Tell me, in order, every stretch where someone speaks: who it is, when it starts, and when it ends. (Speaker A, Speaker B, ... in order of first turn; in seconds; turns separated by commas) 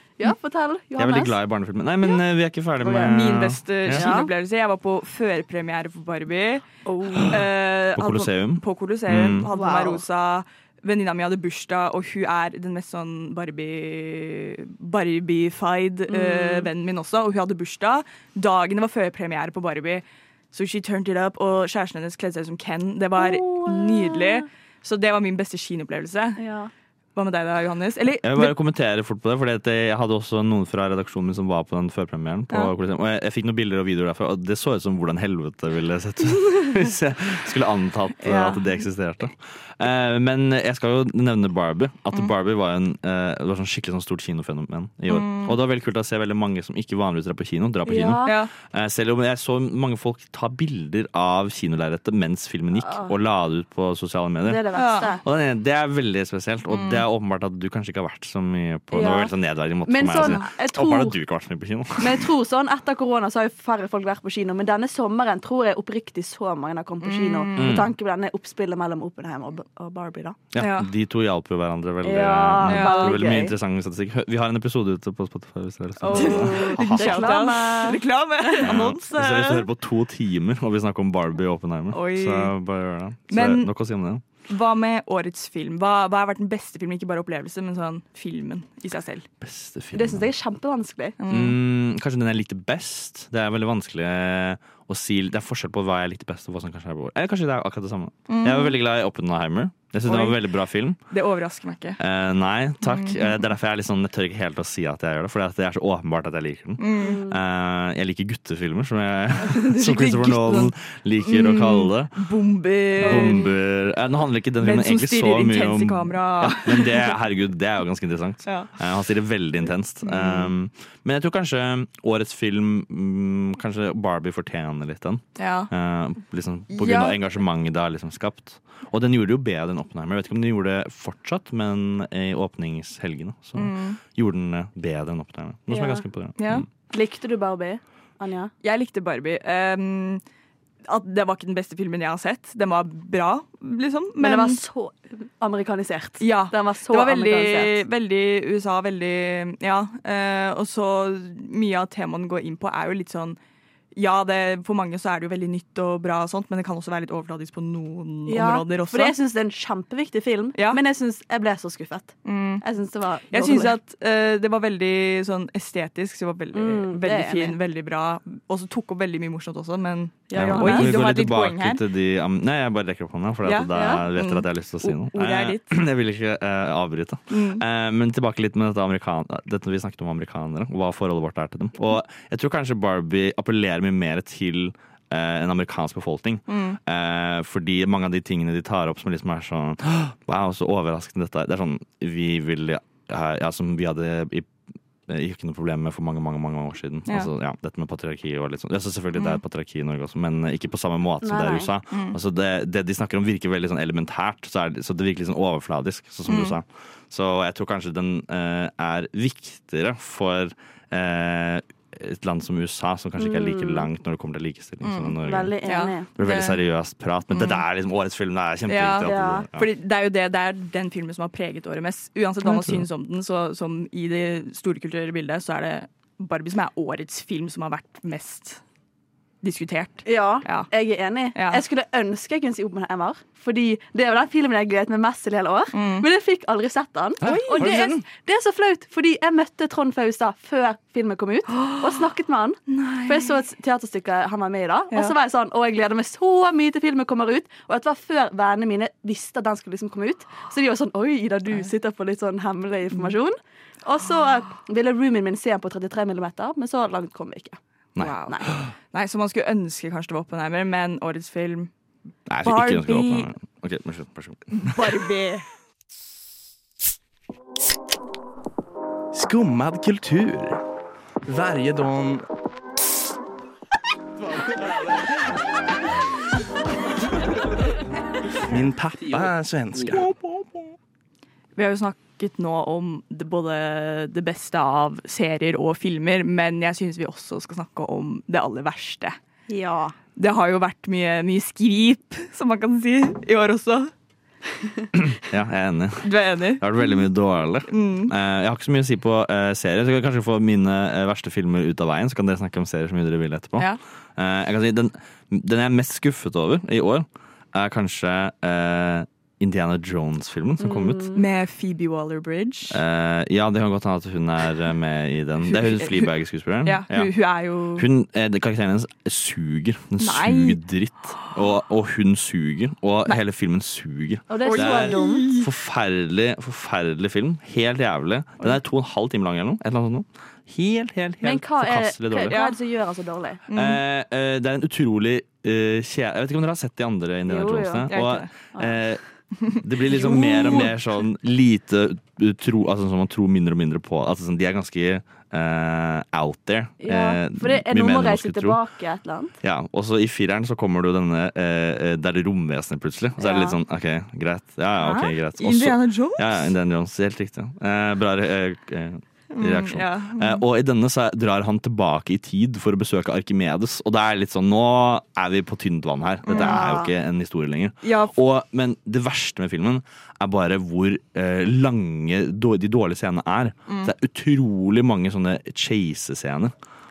Speaker A: 0.2-1.4, Speaker B: 1.0-4.1, Speaker A: 2.8-3.1, Speaker C: 2.8-26.4, Speaker A: 3.9-4.3, Speaker A: 6.8-7.3, Speaker B: 7.9-9.5, Speaker A: 9.3-10.0, Speaker A: 16.1-16.7, Speaker A: 23.2-24.4, Speaker A: 26.4-26.7, Speaker C: 27.1-28.5, Speaker B: 28.2-62.3, Speaker C: 38.2-38.7, Speaker C: 45.1-45.6, Speaker A: 47.8-48.4, Speaker C: 48.2-48.5, Speaker A: 52.8-53.1, Speaker A: 54.4-55.2, Speaker C: 54.7-55.1, Speaker C: 56.7-57.0, Speaker A: 58.9-59.3, Speaker A: 59.8-61.2, Speaker C: 60.1-60.5, Speaker A: 62.0-70.4, Speaker C: 67.0-67.8, Speaker B: 67.5-67.9, Speaker B: 70.5-77.5, Speaker C: 70.6-70.9, Speaker A: 72.0-73.5, Speaker C: 72.7-73.2, Speaker C: 76.0-79.7, Speaker A: 76.1-78.0, Speaker B: 78.6-84.2, Speaker C: 81.9-82.5, Speaker C: 83.3-83.7, Speaker C: 84.5-89.3, Speaker B: 89.4-90.3, Speaker A: 89.9-91.2, Speaker C: 91.2-91.6, Speaker B: 91.3-101.0, Speaker C: 98.3-98.8, Speaker C: 100.0-100.4, Speaker C: 101.1-102.0, Speaker B: 102.0-112.1, Speaker C: 102.8-103.4, Speaker C: 106.8-107.2, Speaker A: 107.0-107.4, Speaker C: 109.4-110.7, Speaker C: 111.2-113.5, Speaker B: 113.0-136.7, Speaker A: 113.0-113.5, Speaker C: 114.6-117.1, Speaker C: 118.5-118.7, Speaker C: 120.0-120.5, Speaker C: 125.4-125.7, Speaker C: 126.7-127.2, Speaker C: 133.5-134.0, Speaker A: 135.7-136.0, Speaker C: 136.4-136.7, Speaker A: 136.9-138.5, Speaker C: 138.6-140.2, Speaker C: 140.9-144.6, Speaker A: 144.2-147.8, Speaker C: 146.2-153.4, Speaker C: 153.9-159.1, Speaker A: 158.3-163.8, Speaker C: 162.2-162.6, Speaker C: 163.3-171.8, Speaker A: 166.5-167.6, Speaker A: 170.3-171.0, Speaker B: 170.3-194.5, Speaker C: 173.4-175.7, Speaker A: 173.7-174.0, Speaker C: 177.3-177.6, Speaker C: 186.5-186.8, Speaker B: 195.1-215.5, Speaker C: 199.2-199.4, Speaker A: 201.2-201.7, Speaker C: 201.9-202.2, Speaker C: 206.2-206.6, Speaker A: 213.2-213.9, Speaker C: 214.8-216.6, Speaker A: 215.2-216.1, Speaker B: 216.2-219.7, Speaker C: 217.3-217.6, Speaker C: 218.7-228.6, Speaker A: 219.0-219.5, Speaker B: 222.4-222.8, Speaker C: 229.4-230.7, Speaker A: 230.0-257.6, Speaker C: 231.3-231.6, Speaker C: 235.7-236.0, Speaker B: 237.2-238.0, Speaker C: 237.2-237.8, Speaker C: 241.5-242.0, Speaker C: 242.7-243.3, Speaker C: 258.0-261.7, Speaker B: 262.3-264.8, Speaker C: 262.4-263.3, Speaker C: 264.5-265.5, Speaker D: 269.1-270.6, Speaker D: 271.2-272.2, Speaker D: 278.4-280.1, Speaker C: 281.6-289.2, Speaker A: 289.5-289.9, Speaker C: 290.1-293.9, Speaker B: 294.9-311.1, Speaker C: 296.0-296.8, Speaker C: 297.7-298.1, Speaker A: 310.6-311.2, Speaker C: 311.1-312.8, Speaker B: 312.7-317.1, Speaker C: 315.4-316.1, Speaker C: 316.6-317.9, Speaker B: 317.8-332.4, Speaker C: 320.0-320.6, Speaker A: 324.3-325.3, Speaker C: 324.4-325.5, Speaker A: 331.2-333.4, Speaker C: 332.3-332.5, Speaker C: 333.5-333.8, Speaker B: 333.5-348.6, Speaker A: 337.3-337.9, Speaker C: 337.9-338.3, Speaker C: 339.4-340.7, Speaker A: 340.1-340.6, Speaker A: 346.8-349.3, Speaker B: 349.4-376.5, Speaker A: 353.2-353.5, Speaker C: 354.8-356.5, Speaker C: 359.3-360.4, Speaker A: 366.3-366.9, Speaker C: 366.3-366.6, Speaker C: 367.8-368.1, Speaker C: 373.7-373.9